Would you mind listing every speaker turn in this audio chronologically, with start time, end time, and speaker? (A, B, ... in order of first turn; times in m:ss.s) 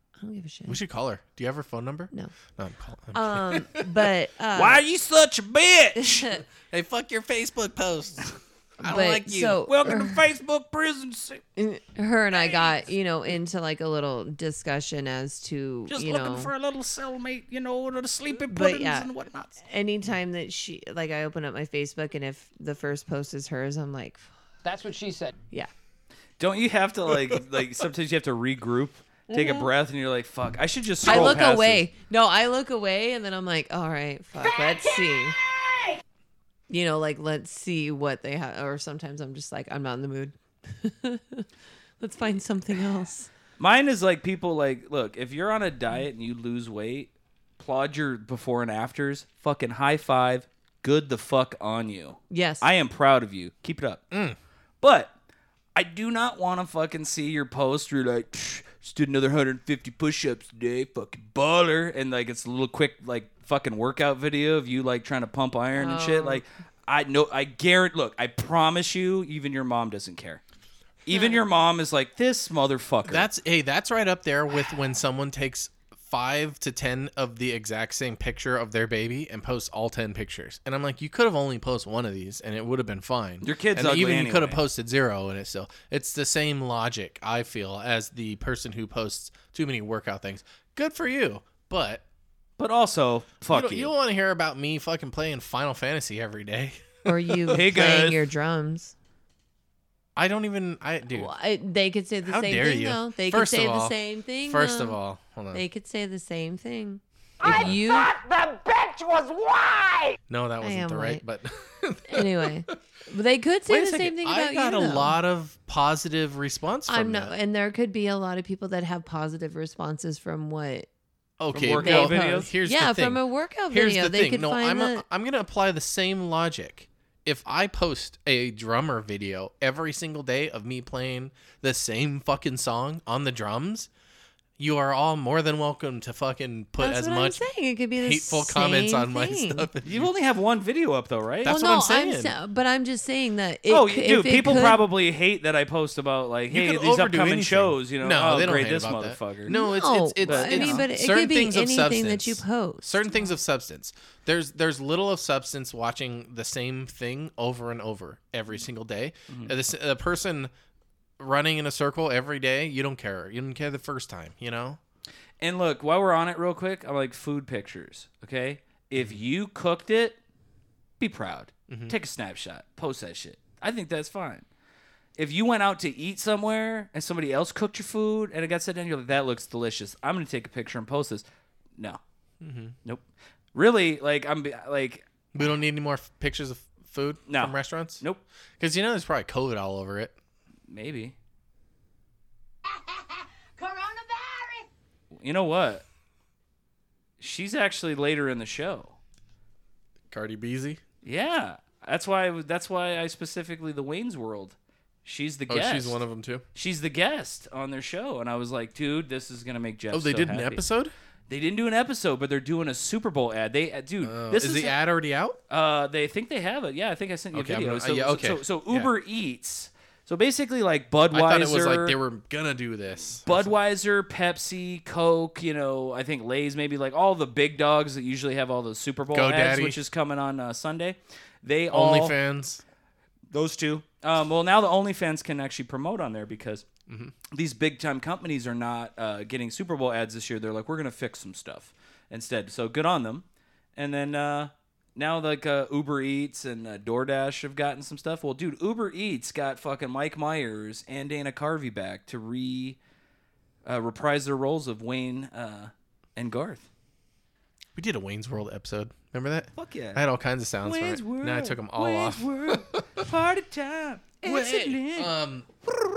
0:00.2-0:00.8 A
0:00.7-0:04.1 B
0:03.1-0:04.8 A
0:04.6-0:06.3 C
0:06.0-0:06.4 A
0:06.7-0:09.9 B
0:08.8-0:10.2 A
0:09.7-0:11.4 C
0:11.6-0:16.5 A
0:12.3-0:12.7 C
0:15.9-0:19.6 C
0:18.5-0:19.1 A
0:19.6-0:24.3 A
0:24.6-0:25.3 D
0:26.4-0:31.8 C
0:29.3-0:29.6 A
0:31.0-0:35.4 A
0:36.7-0:41.5 A
0:42.0-0:43.3 A
0:43.6-0:54.0 C
0:52.3-0:52.7 A
0:54.1-0:54.4 B
0:54.8-0:55.1 C
0:55.8-1:10.4 C
1:05.8-1:06.4 A
1:11.1-1:13.3 C
1:11.1-1:11.4 A
1:13.0-1:32.0 B
1:23.4-1:24.6 C
1:32.6-1:33.9 C
1:33.5-1:37.6 B
1:37.0-1:38.9 A
1:37.5-1:38.2 C
1:40.2-1:41.3 B
1:41.1-1:45.0 A
1:42.2-1:45.6 B
1:45.5-1:48.1 A
1:47.5-1:47.8 B
1:48.4-1:49.7 D
1:50.3-1:52.8 B
1:50.6-1:51.2 A
1:52.1-1:55.2 A
1:53.7-1:57.3 B
1:56.9-2:00.9 A
2:01.4-2:13.9 B
2:01.5-2:02.5 C
2:01.8-2:05.0 A
2:14.6-2:17.4 B
2:16.8-2:19.7 A
2:18.0-2:20.1 B
2:19.8-2:21.5 C
2:21.4-2:22.3 B
2:21.5-2:24.8 A
2:23.7-2:29.6 C
2:26.5-2:40.5 B
2:29.5-2:33.2 A
2:30.2-2:30.8 C
2:41.2-2:44.8 B
2:45.4-2:50.2 C
2:51.0-2:54.4 C
2:51.7-2:52.0 B
2:55.2-3:01.2 C
3:02.4-3:02.7 B
3:03.6-3:05.0 C
3:05.3-3:08.0 B
3:07.3-3:08.2 C
3:08.6-3:10.2 B
3:10.7-3:11.2 C
3:13.6-3:14.6 D
3:15.2-3:15.8 C
3:17.2-3:19.0 C
3:20.1-3:20.8 B
3:21.0-3:26.0 C
3:25.5-3:26.4 B
3:26.6-3:30.6 C
3:29.9-3:30.9 B
3:31.3-3:34.8 C
3:34.0-3:35.4 B
3:35.5-3:42.0 C
3:37.3-3:38.9 B
3:41.1-3:43.5 B
3:43.3-3:52.2 C
3:49.1-3:49.8 B
3:51.7-3:52.6 B
3:53.3-3:56.6 C
3:56.9-3:57.1 B
3:57.3-4:03.2 C
4:03.8-4:12.8 C
4:13.7-4:16.7 C
4:17.8-4:23.0 B
4:19.6-4:20.0 C
4:20.6-4:25.1 C
4:24.2-4:25.5 B